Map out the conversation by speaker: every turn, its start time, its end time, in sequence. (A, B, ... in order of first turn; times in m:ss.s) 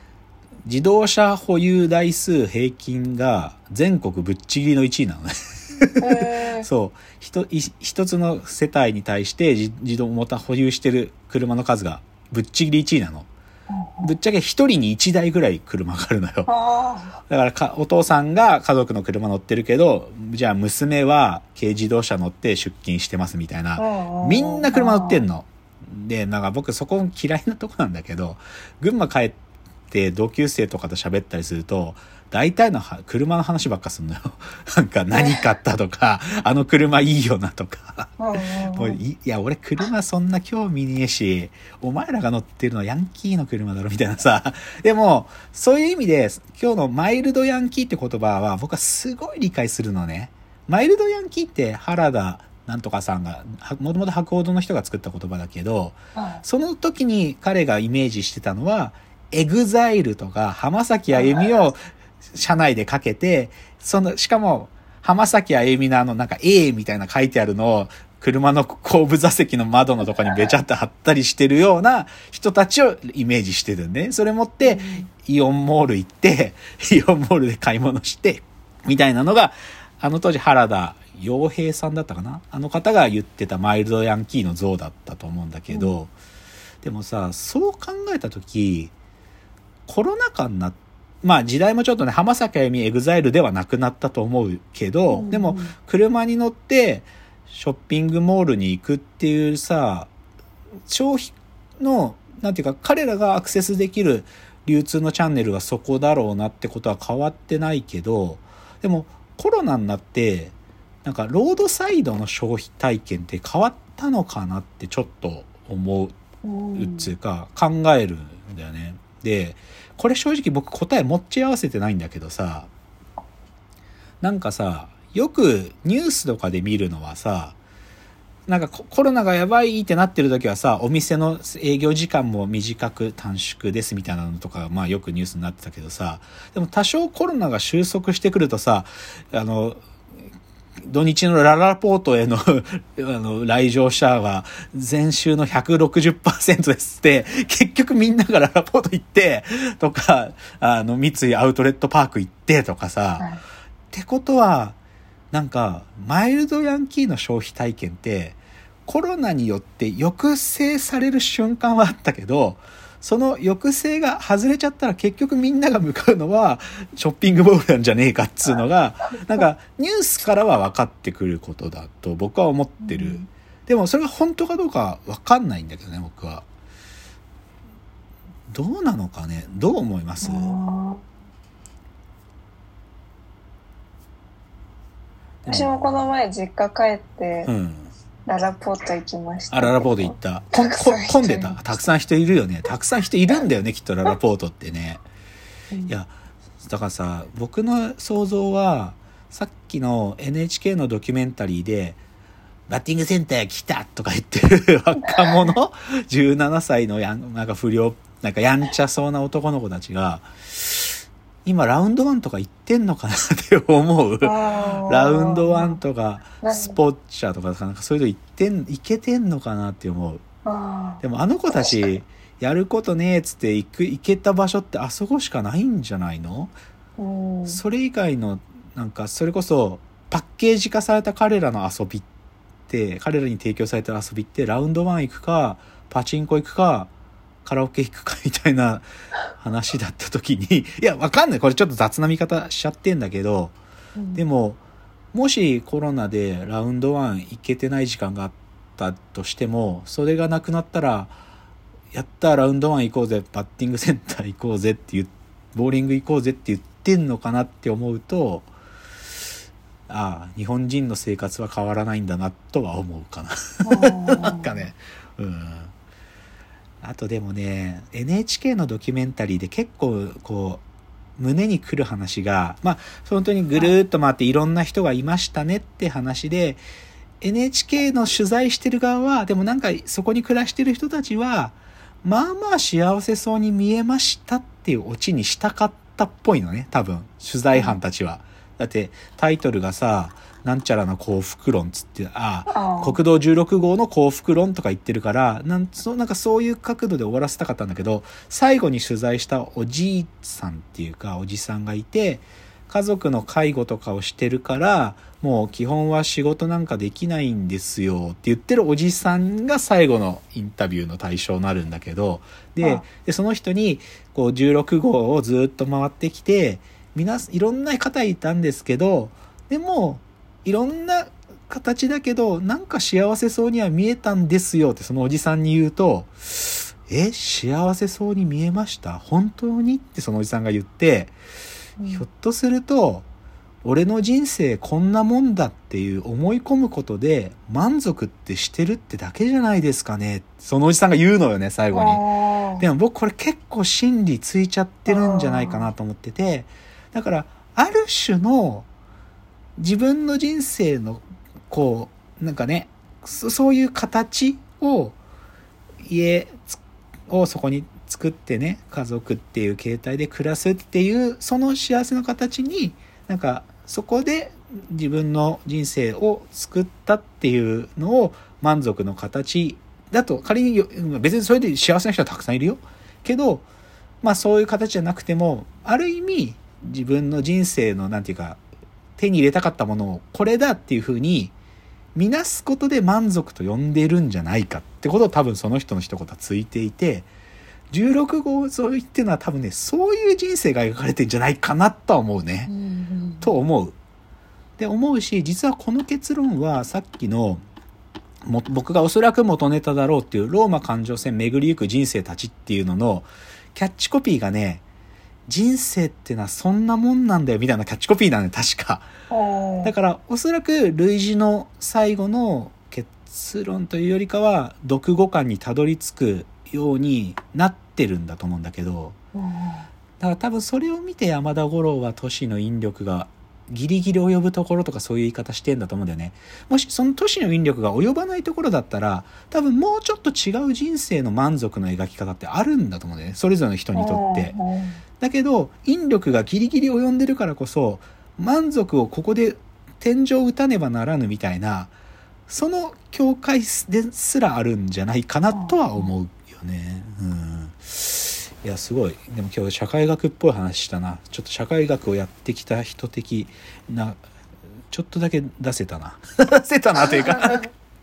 0:00.6-0:13.3 A
0:06.0-0:06.7 B
0:13.7-0:14.1 B
0:14.0-0:16.5 A
0:16.5-0:17.2 B
0:17.3-0:29.4 A
0:23.8-0:25.2 B
0:29.9-1:01.8 A
0:35.1-0:35.4 B
0:38.2-0:39.0 B
0:56.1-0:56.4 B
1:01.1-1:01.4 B
1:02.3-1:26.1 A
1:14.6-1:15.1 B
1:25.7-1:26.0 B
1:26.8-1:28.9 A
1:29.9-1:40.1 A
1:35.1-1:35.7 B
1:40.9-1:56.1 A
1:56.4-1:57.1 B
1:56.8-2:02.7 A
2:04.2-2:07.6 A
2:08.5-2:19.8 A
2:20.8-2:33.3 A
2:33.9-2:34.8 A
2:35.3-2:56.4 A
2:52.8-2:53.3 B
2:58.5-3:00.5 A
3:00.2-3:01.0 B
3:05.4-3:06.1 A
3:05.5-3:07.5 B
3:07.4-3:07.9 A
3:08.3-3:11.6 B
3:09.5-3:15.0 A
3:16.6-3:22.0 A
3:22.7-3:40.2 A
3:25.1-3:25.5 B
3:34.2-3:35.8 B
3:36.4-3:36.8 B
3:40.4-3:41.0 B
3:41.0-3:46.5 A
3:47.0-3:47.6 B
3:47.5-3:52.1 A
3:52.7-3:56.9 A
3:57.4-4:03.6 A
4:04.0-4:04.2 B
4:04.1-4:04.6 A
4:05.1-4:11.2 A
4:11.9-4:18.5 A
4:19.9-4:25.7 A
4:23.6-4:24.6 B
4:26.8-4:30.6 A
4:31.2-4:36.6 A
4:37.2-5:31.1 A
4:52.5-4:53.0 B
5:31.8-5:32.0 B
5:31.9-5:33.1 A
5:33.6-5:42.0 A
5:41.7-5:42.7 B
5:42.6-5:48.7 A
5:44.9-5:45.7 B
5:49.6-5:55.0 A
5:55.8-6:13.5 A
6:14.0-6:18.4 A
6:19.0-6:21.4 A
6:22.0-6:27.1 A
6:27.7-6:32.5 A
6:32.5-6:33.3 B
6:33.2-6:33.8 A
6:34.6-6:37.4 A
6:38.2-6:44.6 A
6:45.3-6:48.9 A
6:49.1-6:49.7 B
6:49.6-6:59.0 A
6:59.2-6:59.7 B
7:00.0-7:14.4 A
7:13.7-7:14.8 B
7:15.0-7:21.7 A
7:22.3-7:34.0 A
7:25.3-7:25.9 B
7:34.7-7:37.5 A
7:36.9-7:37.4 B